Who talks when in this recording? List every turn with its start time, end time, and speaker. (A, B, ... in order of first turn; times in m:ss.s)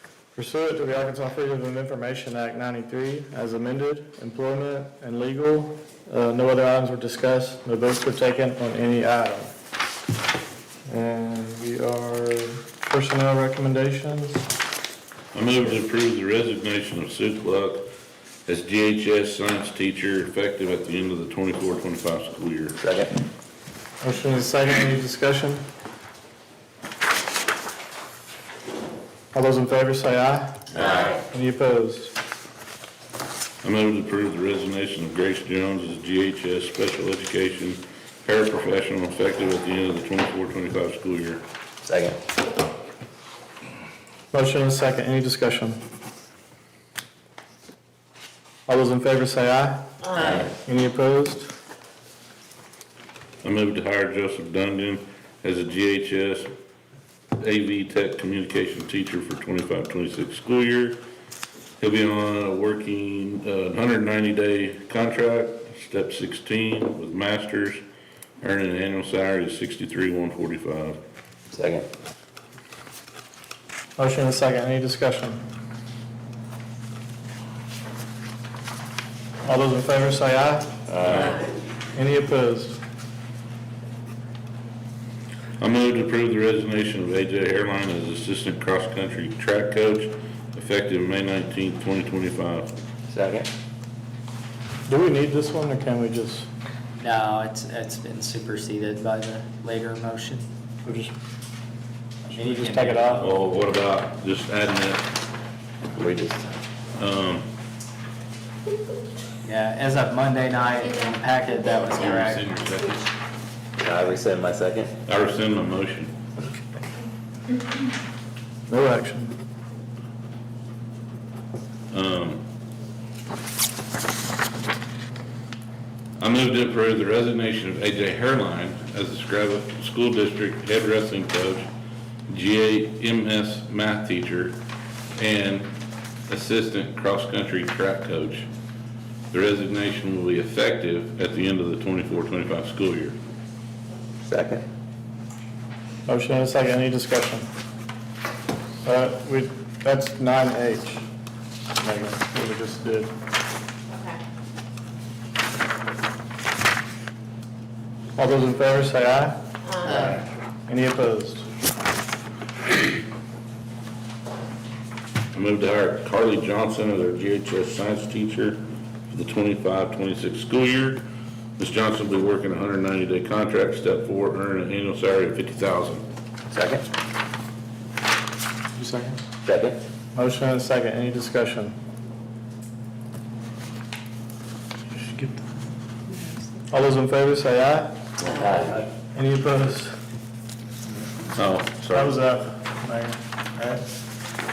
0:00.3-0:09.5 A
0:10.9-0:14.4 A
0:15.3-0:17.9 B
0:18.5-0:22.8 B
0:22.8-0:23.2 C
0:24.0-0:25.6 A
0:29.3-0:32.1 A
0:30.8-0:31.1 C
0:33.6-0:41.4 B
0:41.8-0:42.2 C
0:44.3-0:45.8 A
0:48.7-0:51.5 A
0:50.2-0:50.5 B
0:53.4-0:56.5 B
0:57.4-1:01.0 B
1:01.8-1:07.8 B
1:08.4-1:11.0 B
1:11.5-1:11.9 C
1:14.0-1:15.4 A
1:19.4-1:20.7 A
1:20.9-1:21.4 C
1:21.0-1:21.4 B
1:21.9-1:22.8 A
1:25.6-1:32.7 B
1:33.1-1:33.5 C
1:34.9-1:36.5 A
1:37.0-1:40.4 D
1:40.8-1:41.1 A
1:42.3-1:43.4 D
1:42.3-1:43.3 A
1:43.2-1:45.1 B
1:45.9-1:46.6 C
1:47.0-1:47.4 B
1:49.4-1:52.4 D
1:51.9-1:53.1 B
1:53.8-1:54.9 C
1:55.1-1:56.1 B
1:58.7-1:59.3 A
2:01.9-2:02.4 B
2:06.2-2:11.7 B
2:12.3-2:14.6 B
2:15.2-2:15.7 B
2:16.3-2:18.5 B
2:19.3-2:23.2 B
2:24.2-2:24.6 C
2:26.1-2:27.5 A
2:28.8-2:31.0 A
2:31.8-2:33.1 A
2:38.2-2:40.2 A
2:40.7-2:41.4 A
2:45.3-2:51.0 B
2:51.6-2:56.0 B
2:56.5-2:56.8 C
2:58.8-2:59.2 A
2:59.4-2:59.8 C
3:00.1-3:01.8 A
3:06.7-3:08.0 A
3:08.2-3:08.8 C
3:09.1-3:09.9 A
3:11.4-3:12.2 B
3:11.9-3:13.8 A